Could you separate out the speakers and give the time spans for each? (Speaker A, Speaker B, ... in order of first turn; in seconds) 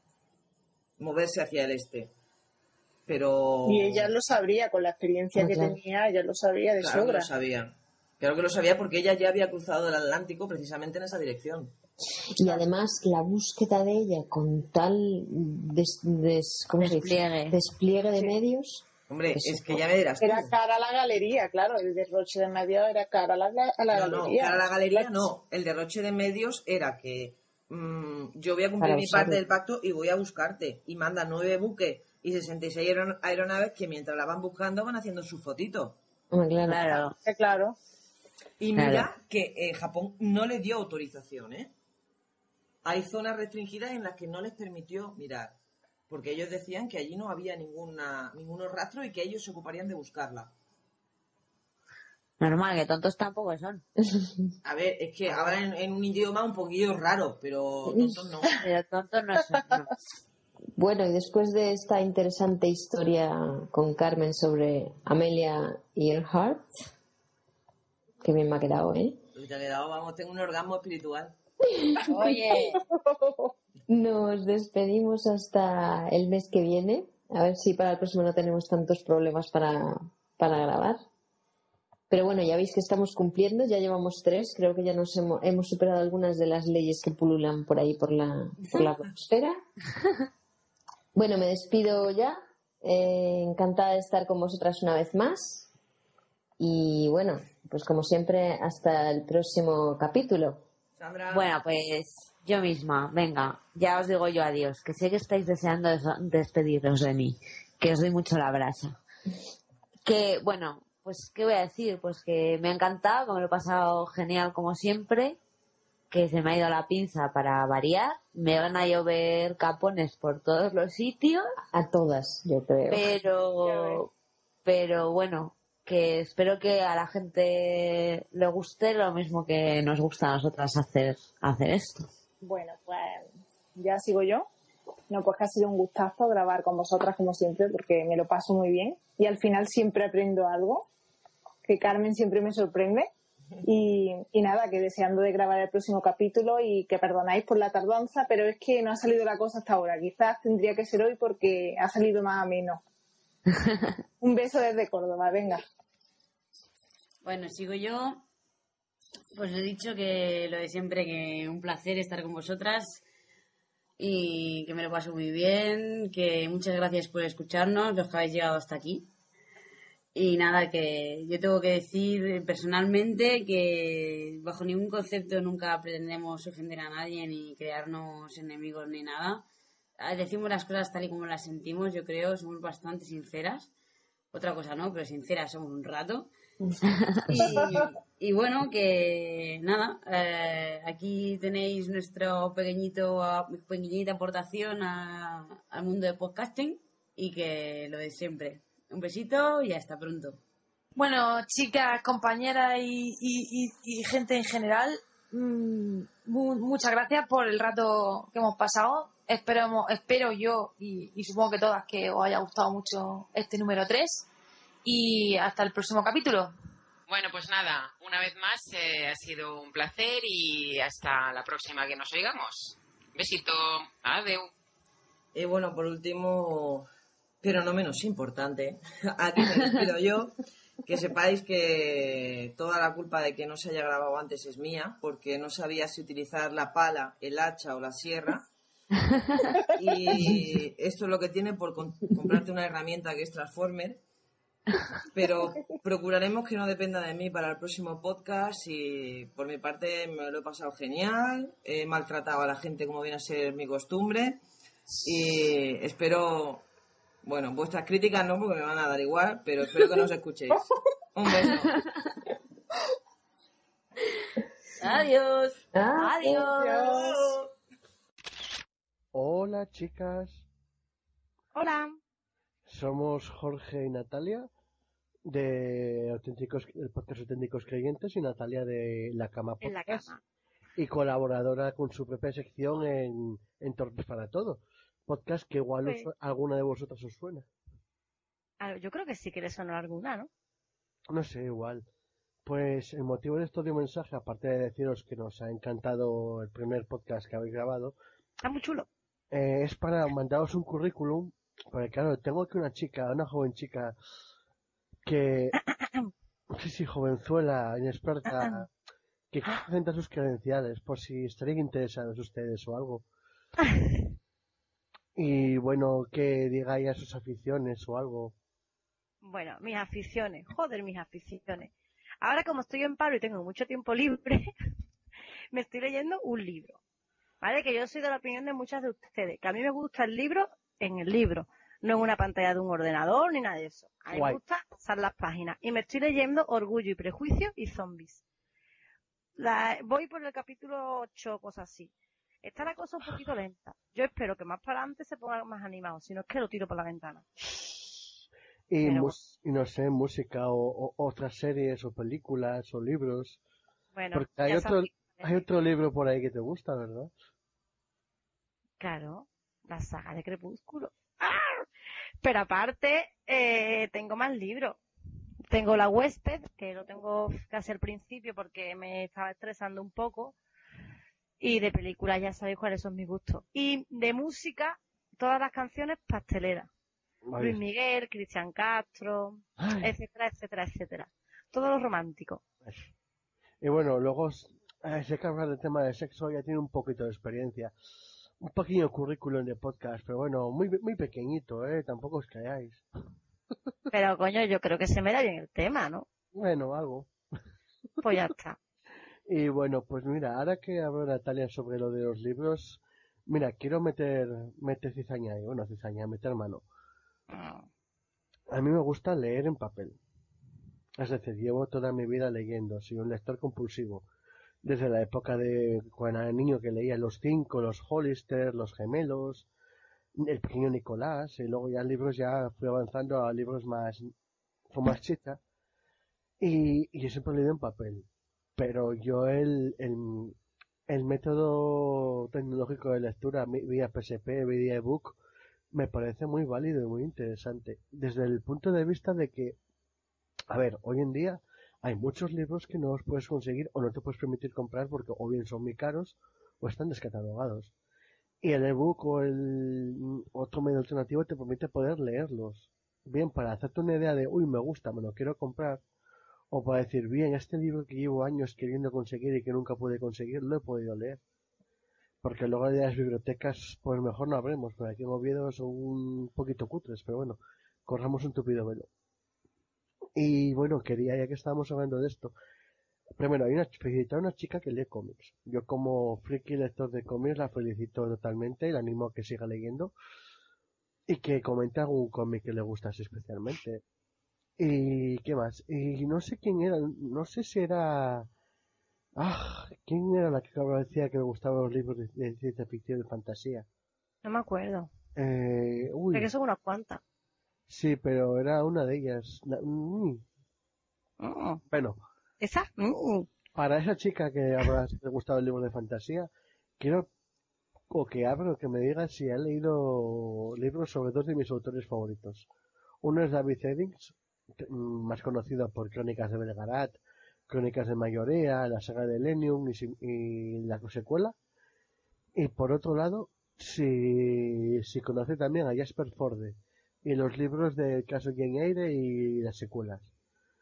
Speaker A: 1.0-2.1, 3.1-4.1, 6.8-11.7, 19.1-20.5, 23.9-36.0, 38.6-41.7, 42.8-45.5, 46.1-50.5, 54.6-58.6, 69.3-71.3, 88.7-89.0, 101.0-101.5, 225.3-226.9, 227.4-238.4, 239.7-244.0, 245.1-254.4, 255.0-256.6, 257.2-261.8, 266.8-267.3
Speaker B: 3.6-7.3, 20.2-25.2, 37.2-37.8, 123.6-124.0, 132.4-133.2, 133.7-134.5, 135.1-140.8, 141.6-143.1, 143.6-152.8, 154.2-155.6, 266.5-267.3
Speaker C: 5.3-5.8, 12.3-19.8, 28.8-29.4, 36.3-36.9, 54.1-54.5, 57.9-58.2, 60.8-66.7, 68.2-69.2, 71.8-72.3, 73.9-81.0, 82.1-89.5, 91.1-95.7, 96.6-100.6, 121.7-123.1, 186.6-187.7, 265.7-266.5
Speaker D: 16.8-17.6, 36.6-37.1, 52.4-53.8, 58.6-59.9, 101.3-109.0, 110.0-115.4, 116.1-121.5, 122.9-124.1, 124.6-132.1, 153.5-153.9, 266.3-266.8
Speaker E: 72.1-72.8, 157.2-158.2, 159.3-163.0, 164.0-169.1, 170.1-179.4, 180.0-183.7, 184.3-186.3, 187.3-200.4, 264.8-265.5
Speaker F: 200.9-214.3, 214.8-216.5
Speaker G: 217.1-224.5
Speaker H: 269.1-270.4, 272.7-274.5, 275.3-280.1, 280.8-287.5, 291.1-291.8, 292.4-297.9, 299.3-303.9, 305.0-305.6, 306.5-308.7, 309.3-313.0, 315.2-318.3, 334.1-334.4, 347.4-348.0, 348.7-353.4, 354.1-357.1, 377.3-377.6, 379.6-379.9, 383.6-387.7, 388.4-392.8, 396.3-397.1, 399.3-406.6, 408.5-410.0, 411.0-414.0, 414.6-419.5, 420.2-424.1, 424.7-425.4, 426.4-430.4, 430.9-435.2, 435.7-439.6, 440.5-447.7, 448.4-455.8, 456.5-461.2, 462.2-468.9, 470.1-472.3, 473.2-479.9, 481.1-483.8, 484.6-488.3, 489.2-493.6, 495.1-496.3, 497.7-500.2, 501.7-502.0, 503.5-507.1, 507.9-512.5, 513.0-521.3, 522.4-530.1
Speaker I: 271.5-272.0, 279.6-280.2, 285.8-286.1, 288.6-290.3, 298.4-298.9, 308.3-308.6, 319.2-321.7, 322.2-324.5, 325.5-326.8, 327.4-338.2, 339.4-341.9, 342.4-347.2, 348.8-349.1, 353.9-355.5, 358.8-361.6, 362.2-364.8, 365.5-370.3, 371.4-376.7, 377.4-382.4, 393.9-396.1, 398.0-398.6, 407.3-407.6, 494.2-494.9, 496.1-497.0, 501.2-501.6, 502.4-503.3